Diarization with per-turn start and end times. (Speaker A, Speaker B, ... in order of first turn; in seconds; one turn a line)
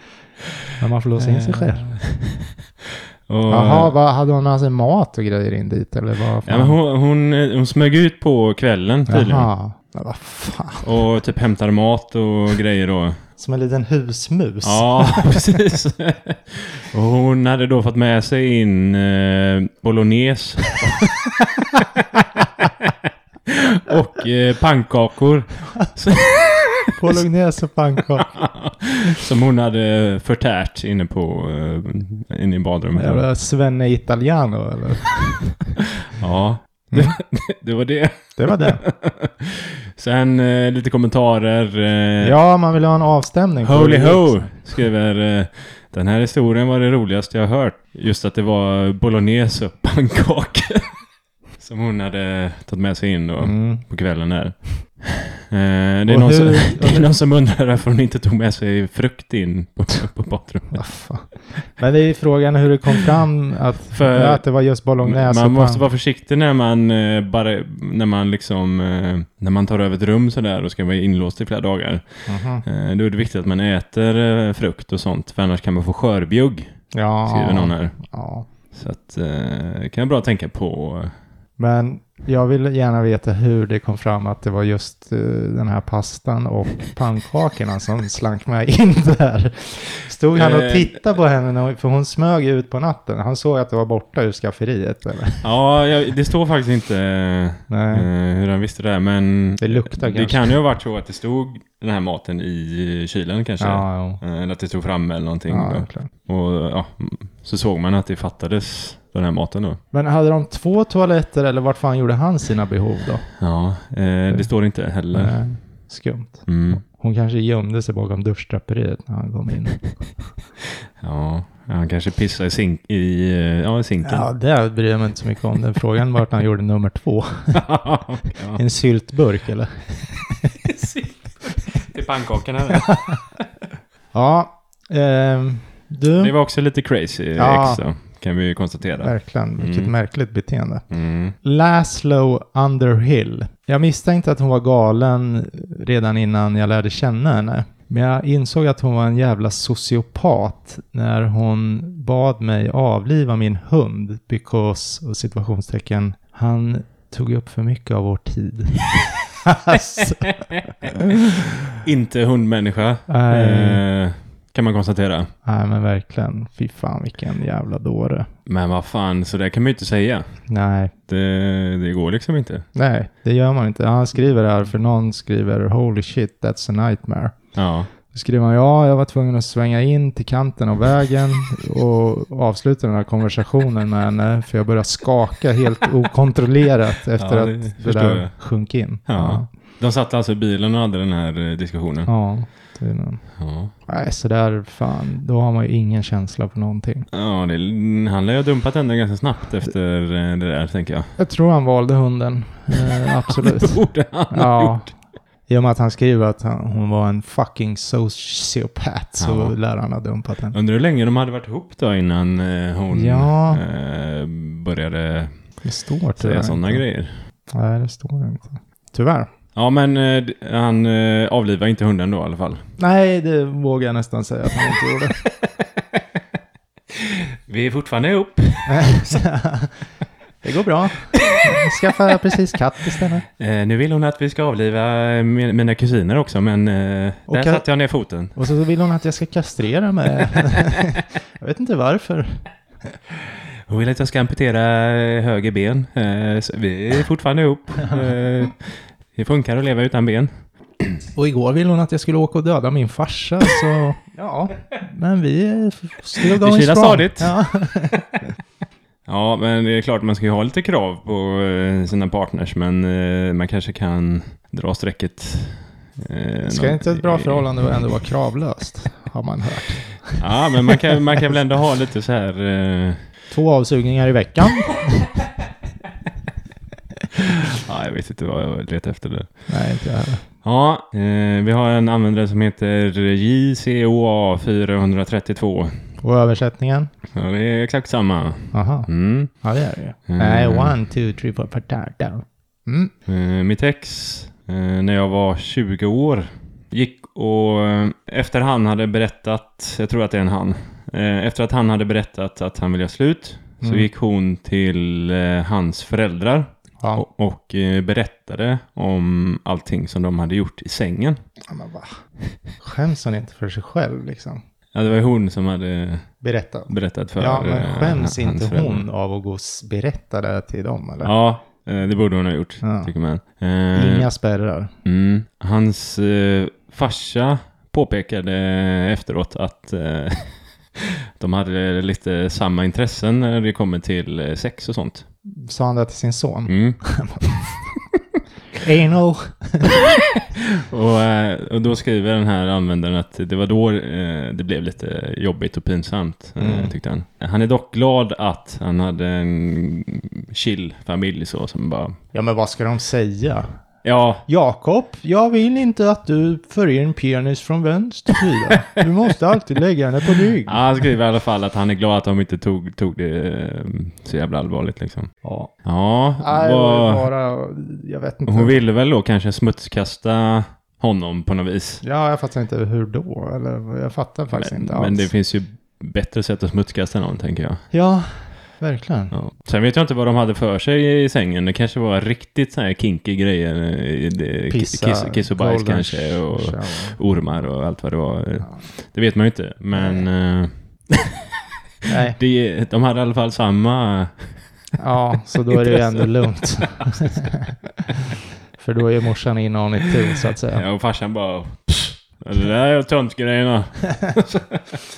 Speaker A: 0.5-3.9
Speaker B: 0.8-2.0
Speaker B: 3.5-6.8
Speaker A: 6.5-9.5
Speaker B: 9.1-10.9
Speaker A: 10.8-13.2
Speaker B: 13.4-15.5
Speaker A: 14.6-27.2
Speaker B: 26.9-28.4
Speaker A: 28.2-33.2
Speaker B: 33.0-35.8
Speaker A: 35.8-42.4
Speaker B: 36.9-37.2
Speaker B: 38.4-38.8
Speaker B: 42.2-44.6
Speaker A: 43.6-50.9
Speaker A: 51.6-60.9
Speaker B: 53.4-53.9
Speaker B: 56.1-57.1
Speaker B: 60.7-65.8
Speaker A: 63.9-64.5
Speaker A: 65.0-78.0
Speaker B: 72.3-72.7
Speaker B: 76.9-78.5
Speaker A: 78.7-81.1
Speaker B: 81.6-95.5
Speaker A: 90.3-91.0
Speaker A: 95.4-109.8
Speaker B: 97.7-98.1
Speaker B: 99.6-100.6
Speaker B: 103.6-104.2
Speaker B: 105.5-106.1
Speaker B: 109.9-113.3
Speaker A: 113.4-115.4
Speaker B: 115.1-119.8
Speaker A: 116.5-116.8
Speaker A: 121.0-124.3
Speaker B: 124.0-127.6
Speaker A: 127.5-128.6
Speaker B: 128.6-130.6
Speaker A: 130.6-133.4
Speaker B: 134.1-136.3
Speaker A: 136.2-139.9
Speaker B: 137.4-137.8
Speaker B: 139.0-140.8
Speaker A: 140.9-141.4
Speaker B: 141.4-160.3
Speaker A: 159.8-160.6
Speaker B: 160.8-161.5
Speaker A: 161.8-165.3
Speaker B: 163.1-163.8
Speaker B: 165.4-168.3
Speaker A: 168.5-170.4
Speaker B: 170.5-170.9
Speaker A: 171.1-172.7
Speaker B: 172.8-177.4
Speaker A: 177.6-177.9
Speaker B: 178.1-189.5
Speaker A: 187.2-188.4
Speaker A: 189.1-192.1
Speaker B: 192.1-193.3
Speaker A: 193.4-193.7
Speaker B: 193.9-197.1
Speaker A: 197.1-201.1
Speaker B: 201.2-204.9
Speaker A: 202.8-204.8
Speaker B: 205.5-210.6
Speaker A: 209.2-209.6
Speaker A: 210.5-215.3
Speaker B: 212.9-213.6
Speaker B: 215.6-216.8
Speaker A: 216.2-217.1
Speaker B: 217.5-219.3
Speaker A: 219.6-222.6
Speaker B: 222.8-225.2
Speaker A: 226.9-229.2
Speaker B: 228.7-229.8
Speaker B: 230.4-233.2
Speaker A: 233.4-238.3
Speaker B: 237.3-237.7
Speaker B: 238.3-242.4
Speaker A: 243.7-250.3
Speaker B: 251.2-258.2
Speaker A: 256.2-257.4
Speaker A: 259.1-267.4
Speaker B: 266.4-270.9
Speaker A: 270.2-273.0
Speaker B: 273.3-275.1
Speaker A: 277.1-279.3
Speaker B: 279.5-280.2
Speaker A: 280.4-285.8
Speaker B: 286.0-286.9
Speaker A: 287.1-289.3
Speaker B: 288.5-292.9
Speaker A: 290.1-290.8
Speaker A: 293.1-311.2
Speaker B: 303.6-303.9
Speaker B: 311.5-312.0
Speaker B: 312.6-314.4
Speaker A: 314.7-316.1
Speaker B: 316.2-321.1
Speaker A: 316.7-318.8
Speaker A: 321.0-324.1
Speaker B: 322.6-322.9
Speaker B: 323.7-324.7
Speaker A: 324.9-335.1
Speaker B: 335.3-337.6
Speaker A: 336.5-336.8
Speaker B: 338.6-339.9
Speaker A: 339.7-351.9
Speaker B: 346.4-346.8
Speaker B: 352.1-353.5
Speaker A: 353.8-354.2
Speaker B: 354.3-360.6
Speaker A: 360.4-365.1
Speaker B: 365.2-365.5
Speaker A: 365.6-367.1
Speaker B: 366.2-368.6
Speaker A: 368.3-371.8
Speaker B: 371.8-375.1
Speaker A: 374.3-377.6
Speaker B: 377.7-379.1
Speaker A: 379.1-391.3
Speaker B: 384.5-387.0
Speaker B: 389.8-390.1
Speaker B: 391.9-392.2
Speaker A: 392.2-394.4
Speaker B: 394.8-397.6
Speaker A: 395.5-397.1
Speaker B: 398.6-400.6
Speaker A: 400.5-404.8